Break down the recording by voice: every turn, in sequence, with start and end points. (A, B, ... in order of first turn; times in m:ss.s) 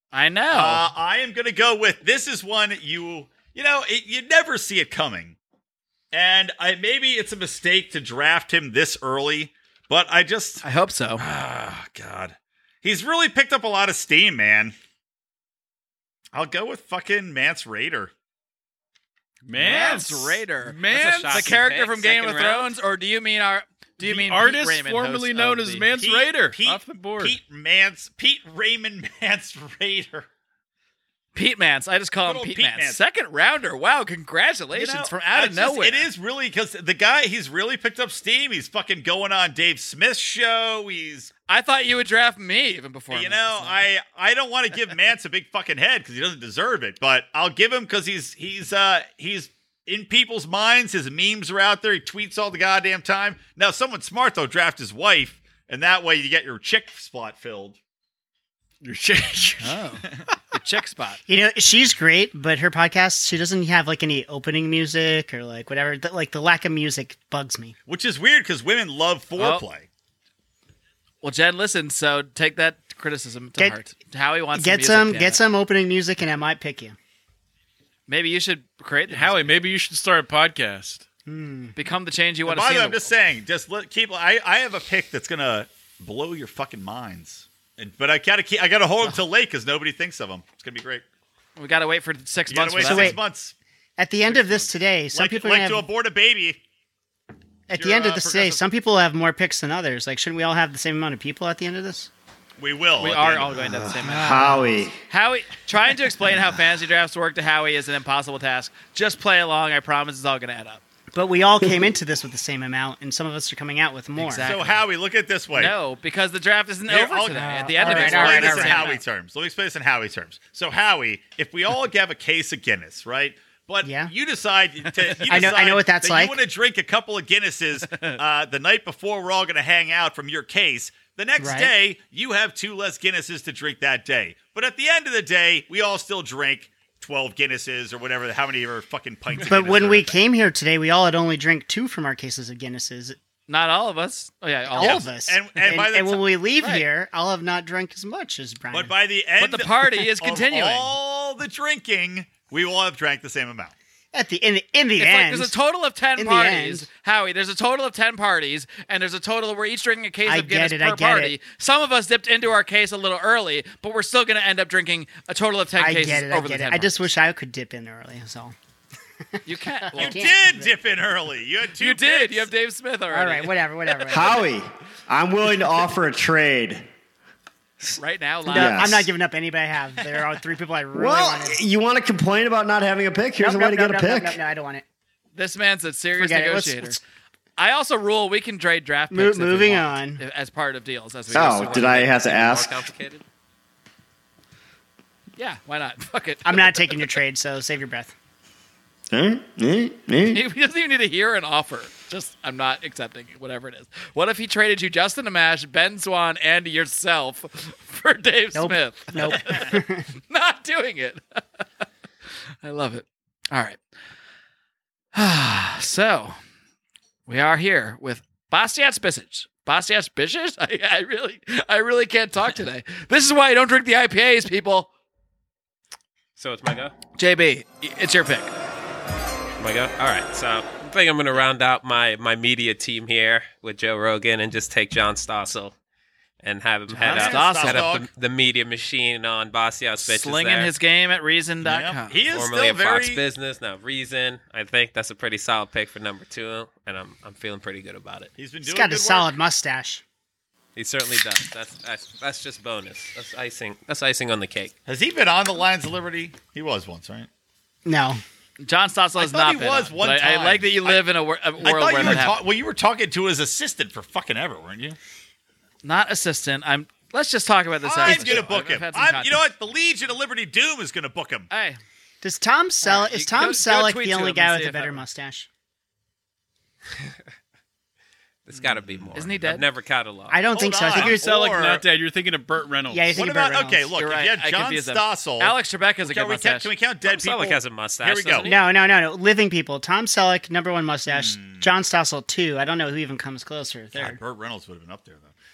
0:00.1-0:00.9 A
0:00.5-0:05.4 B
0:06.1-0:10.6 B
0:10.6-0:11.2 A
0:11.2-0:14.7 B
0:16.3-0:18.1 B
0:19.4-0:21.6 C
0:19.6-0:25.9 A
0:20.9-0:22.7 D
0:24.0-0:27.4 C
0:26.0-0:30.3 B
0:31.3-0:36.1 A
0:32.2-0:33.0 B
0:34.7-0:41.3 B
0:41.5-0:43.8 A
0:43.1-0:57.8 B
0:58.8-0:59.8 C
0:59.6-1:01.2 A
1:01.3-1:07.7 E
1:07.9-1:09.9 B
1:09.4-1:09.6 A
1:11.2-1:15.4 A
1:14.5-1:17.0 E
1:18.1-1:19.6 A
1:19.1-1:21.0 C
1:21.2-1:21.7 E
1:21.8-1:23.1 A
1:22.4-1:31.0 B
1:31.6-1:33.2 A
1:32.5-1:33.5 B
1:32.8-1:33.2 E
1:34.0-1:35.8 E
1:35.1-1:36.6 B
1:37.7-1:42.1 E
1:37.7-1:38.6 B
1:42.6-1:43.6 B
1:43.0-1:50.8 A
1:43.6-1:44.9 F
1:51.1-1:54.4 E
1:54.2-1:54.8 A
1:54.4-1:55.7 B
1:55.5-1:59.0 A
1:56.9-2:20.2 B
1:57.3-1:59.0 E
2:03.8-2:04.1 E
2:05.3-2:06.4 E
2:07.8-2:08.2 A
2:11.4-2:11.7 E
2:19.4-2:23.2 E
2:23.5-2:25.1 A
2:24.7-2:28.9 E
2:24.8-2:26.3 B
2:26.6-2:26.8 A
2:28.7-2:33.7 B
2:29.4-2:30.9 A
2:34.1-2:35.6 E
2:35.0-2:47.0 A
2:36.2-2:36.9 E
2:40.2-2:41.3 E
2:45.8-2:48.5 E
2:49.4-2:50.2 A
2:49.8-2:50.7 E
2:50.0-2:52.5 B
2:51.8-2:53.5 A
2:53.1-2:54.5 E
2:54.0-2:56.9 F
2:57.8-2:59.1 F
2:58.0-2:59.0 A
2:58.5-3:01.6 E
3:00.9-3:04.4 F
3:03.4-3:04.8 E
3:05.3-3:07.0 A
3:06.2-3:07.0 E
3:07.6-3:12.1 A
3:09.1-3:10.2 E
3:11.3-3:13.2 D
3:11.3-3:12.9 F
3:15.4-3:17.1 A
3:16.4-3:18.1 E
3:19.1-3:20.4 F
3:20.2-3:31.6 A
3:28.5-3:30.0 E
3:32.6-3:33.8 A
3:35.1-3:36.4 A
3:37.3-3:44.9 A
3:46.4-3:46.9 D
3:47.2-3:48.5 A
3:49.6-3:55.7 D
3:56.4-4:00.7 D
3:56.9-3:57.9 A
3:57.0-3:58.1 B
4:00.0-4:02.2 A
4:01.6-4:03.2 B
4:02.3-4:08.3 D
4:08.4-4:09.3 B
4:08.6-4:10.0 E
4:10.8-4:14.7 D
4:14.9-4:17.3 B
4:17.8-4:18.2 E
4:18.6-4:22.4 A
4:19.2-4:21.0 B
4:21.6-4:25.0 B
4:25.8-4:29.4 A
4:27.8-4:31.5 B
4:28.0-4:28.4 E
4:31.5-4:31.8 A
4:32.2-4:35.5 E
4:32.8-4:35.0 A
4:38.4-4:40.4 D
4:39.1-4:39.6 A
4:40.3-4:41.3 E
4:40.5-4:41.8 B
4:40.9-4:43.2 C
4:42.9-4:43.9 E
4:43.1-4:48.5 B
4:44.0-4:46.7 A
4:47.0-4:48.6 D
4:48.4-4:54.2 E
4:51.1-4:51.7 B
4:53.9-4:55.3 B